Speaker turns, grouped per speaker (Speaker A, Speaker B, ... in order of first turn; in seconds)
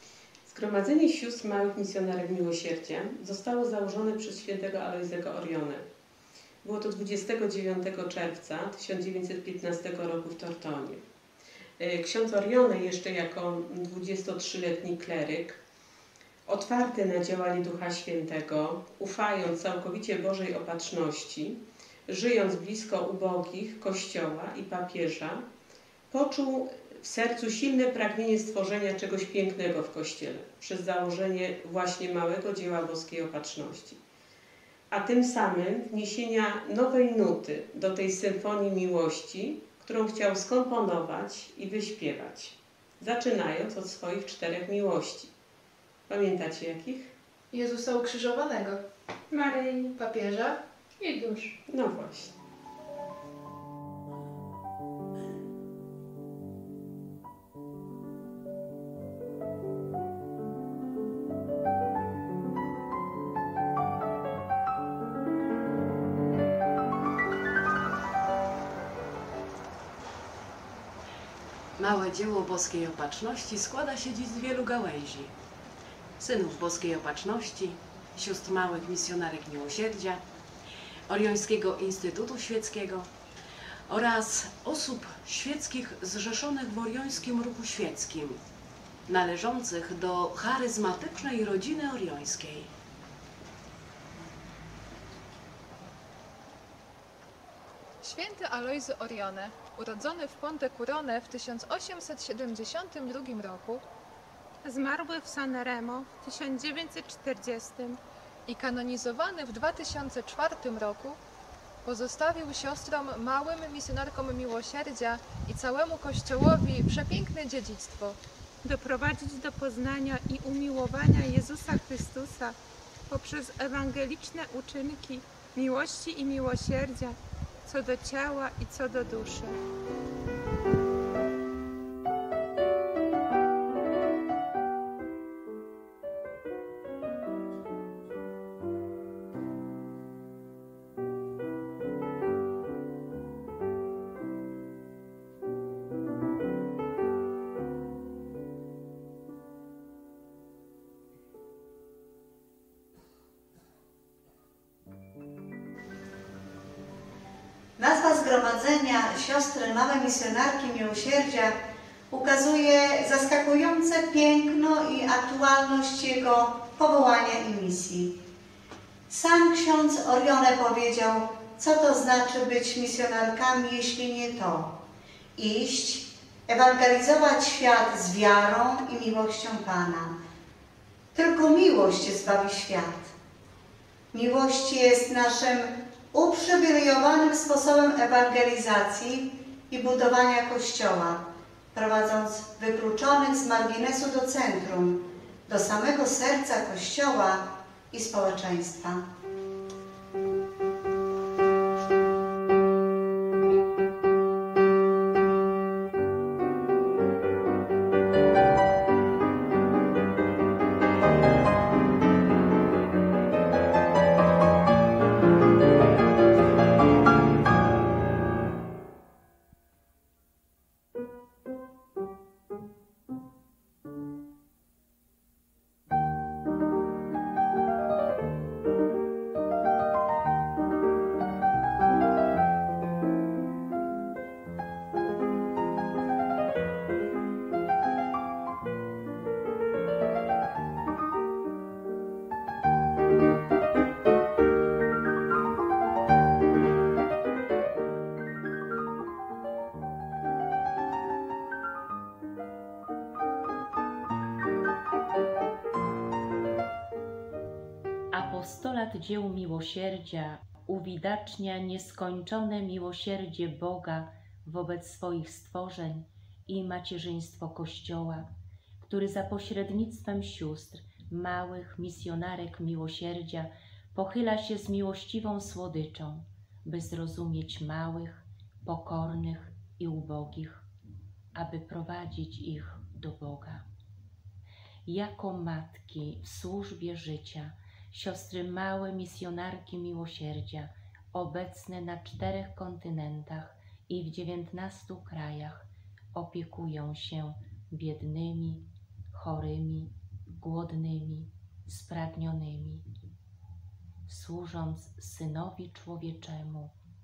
Speaker A: 0.5-5.8, 6.6-11.0, 11.8-15.6, 16.5-25.4, 26.1-34.0, 34.9-45.3, 46.1-47.1, 51.7-52.3
Speaker B: 47.5-48.8, 50.0-50.6, 98.0-103.8, 108.5-111.2, 111.9-118.2
Speaker C: 49.3-49.9, 51.0-51.5, 102.5-103.7, 104.6-108.0, 108.7-111.2, 111.8-116.3, 118.6-122.6, 123.1-129.5
Speaker D: 71.8-75.3, 76.2-80.2, 81.1-83.1, 83.9-88.4, 89.1-92.7
Speaker E: 157.8-161.6, 162.1-168.1, 169.1-174.7, 175.3-180.1, 181.1-183.1, 184.1-199.0
Speaker F: 258.1-280.7, 281.3-283.6, 284.9-302.8, 304.1-306.8